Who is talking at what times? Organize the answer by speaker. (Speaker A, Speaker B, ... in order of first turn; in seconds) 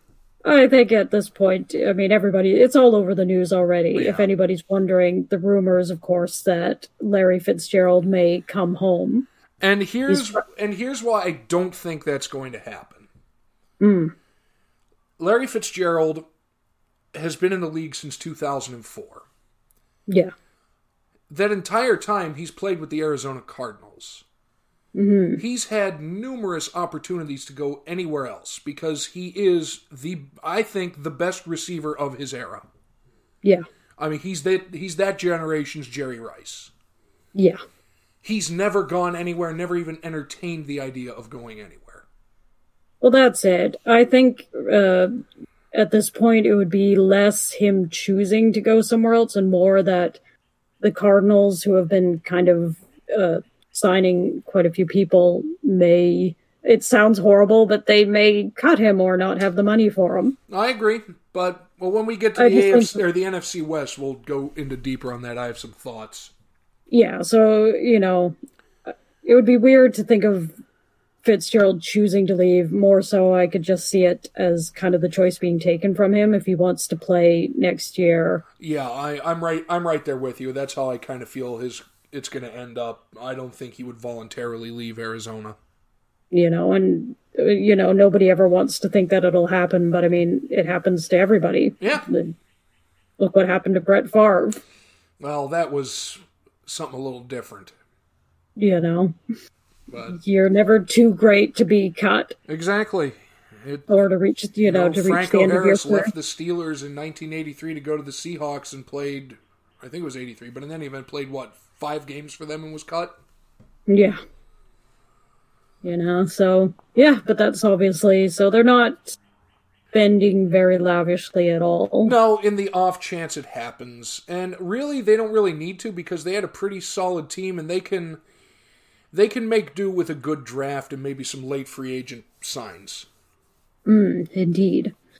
Speaker A: 0.4-9.3, 10.1-10.4, 13.8-14.1, 24.9-25.4, 43.0-45.1, 45.7-50.2, 50.8-60.4, 62.4-63.0, 66.9-68.3, 68.9-70.5, 71.2-78.4, 86.3-92.3, 93.2-94.6, 98.6-99.1, 100.1-102.3, 103.9-106.1, 113.9-114.2, 115.8-119.2, 119.9-122.1, 133.8-134.9
Speaker B: 3.9-4.2, 9.6-13.1, 15.2-16.2, 17.1-19.2, 21.3-24.2, 25.4-32.6, 34.0-36.7, 38.2-42.0, 60.5-66.3, 78.6-85.6, 91.8-92.0, 95.2-97.7, 99.9-100.2, 102.5-103.9, 104.6-113.2, 122.0-128.2, 129.1-133.1